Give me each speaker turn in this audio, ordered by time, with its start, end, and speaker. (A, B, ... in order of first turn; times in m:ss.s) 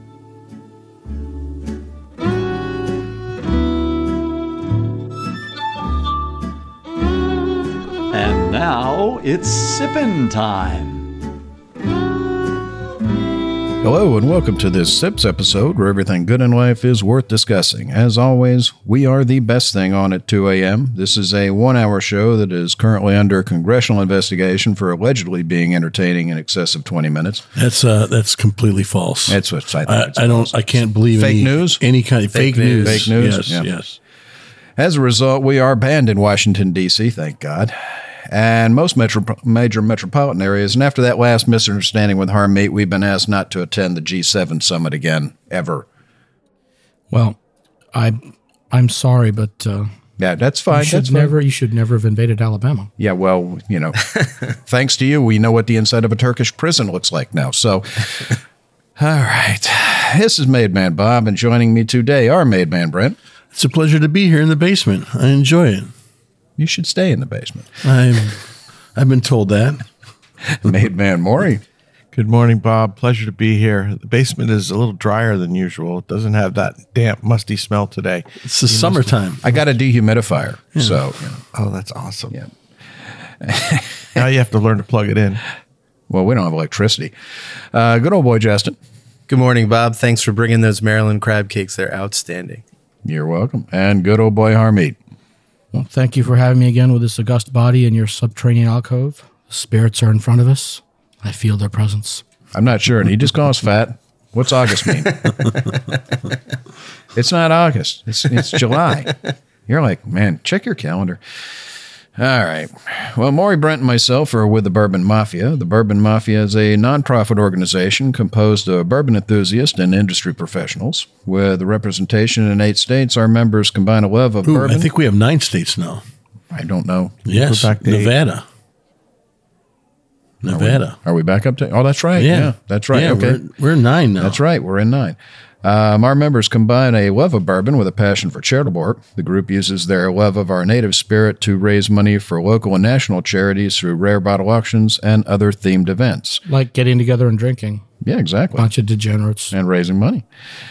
0:08.1-0:11.1 A
0:13.8-0:27.4 B
0:27.6-0:34.0 C
0:29.3-0:31.8 B
0:32.3-0:33.1 D
0:32.8-0:33.7 B
0:34.8-0:45.8 B
0:47.1-0:47.4 E
0:47.9-0:48.2 E
0:48.7-0:49.9 E
0:50.2-0:51.3 B
0:50.7-0:52.9 E
0:53.0-0:54.0 B
0:54.6-0:58.4 B
0:59.0-1:03.2 B
1:03.5-1:05.9 C
1:06.6-1:07.7 B
1:07.8-1:08.4 C
1:09.0-1:09.8 C
1:10.5-1:11.6 B
1:12.1-1:19.1 F
1:18.4-1:19.4 C
1:19.4-1:21.4 B
1:21.5-1:22.4 F
1:23.4-1:24.2 B
1:24.2-1:25.4 F
1:26.1-1:27.1 B
1:27.7-1:28.8 B
1:29.3-1:32.6 D
1:33.0-1:35.0 B
1:35.7-1:42.2 E
1:42.5-1:45.4 B
1:47.1-1:49.1 B
1:49.7-1:51.2 B
1:52.2-2:04.9 B
2:04.4-2:06.0 C
2:06.5-2:07.2 B
2:07.2-2:08.4 C
2:07.3-2:08.1 F
2:10.4-2:11.0 C
2:10.5-2:13.4 B
2:12.2-2:14.4 C
2:14.2-2:26.4 B
2:26.4-2:27.8 E
2:28.0-2:28.7 B
2:28.6-2:29.5 E
2:29.5-2:30.2 B